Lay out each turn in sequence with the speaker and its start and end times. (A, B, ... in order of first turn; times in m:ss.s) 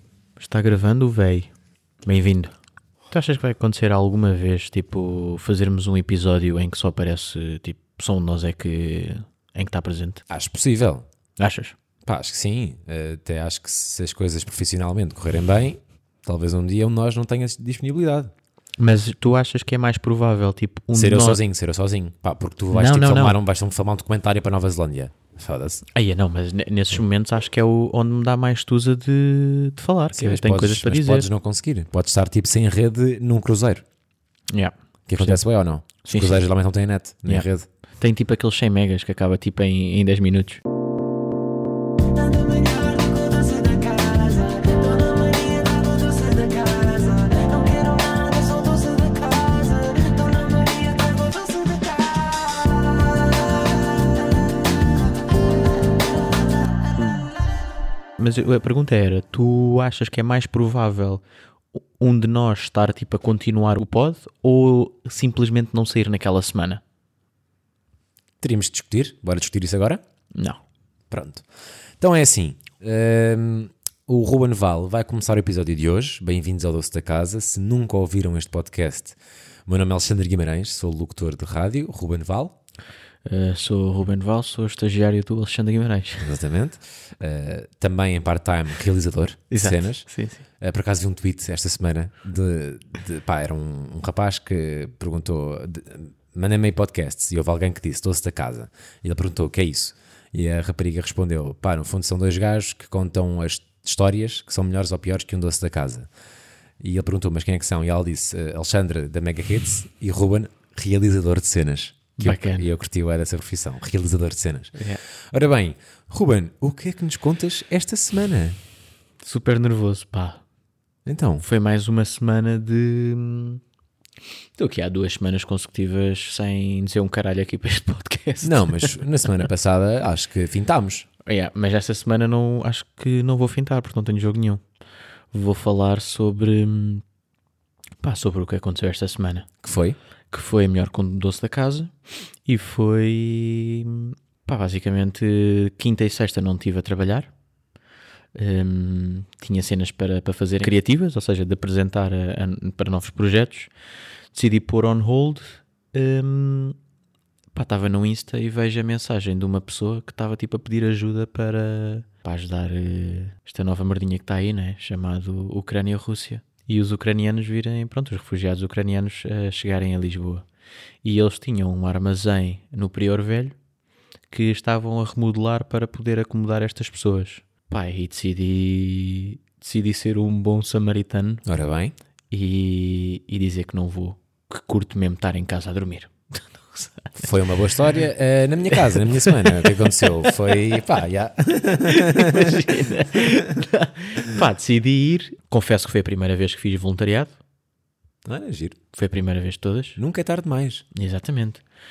0:00.4-0:01.5 A
0:02.1-0:02.5 A
0:03.1-0:10.2 A
0:10.3-0:11.1 B
0:11.4-0:11.8 A
0:12.0-0:18.3 B
0:18.8-0:21.4 A
0:20.9-0:25.8 B
0:22.7-0:23.4 A
0:25.9-0:31.3 A
0:30.1-0:33.8 B
0:34.5-0:35.4 A
0:35.1-0:37.7 B
0:36.0-0:36.5 A
0:38.0-0:40.6 A
0:58.2-1:01.2 A
1:01.7-1:06.8 A
1:08.4-1:10.0 B
1:10.4-1:10.6 A
1:11.1-1:11.4 B
1:12.0-1:22.6 B
1:23.2-1:26.3 A
1:26.2-1:30.1 B
1:29.5-1:30.4 A
1:30.6-1:46.1 B
1:46.8-1:58.6 B
1:52.2-1:52.7 A
1:59.2-2:00.4 A
2:01.1-2:01.4 B
2:01.4-2:03.6 A
2:04.6-2:09.0 A
2:08.4-2:11.1 B
2:11.3-2:14.6 A
2:15.3-2:17.0 A
2:18.0-2:19.5 A
2:19.6-2:20.0 B
2:20.3-2:21.9 A
2:22.5-2:27.3 A
2:28.4-2:33.7 A
2:34.3-2:36.8 A
2:37.5-2:50.4 A
2:51.0-2:53.6 A
2:54.3-3:01.4 A
3:01.5-3:02.0 B
3:02.3-3:07.1 A
3:07.2-3:12.9 B
3:08.9-3:10.4 A
3:11.8-3:17.4 A
3:18.2-3:18.8 B
3:18.9-3:20.0 A
3:20.0-3:20.8 B
3:20.9-3:21.6 A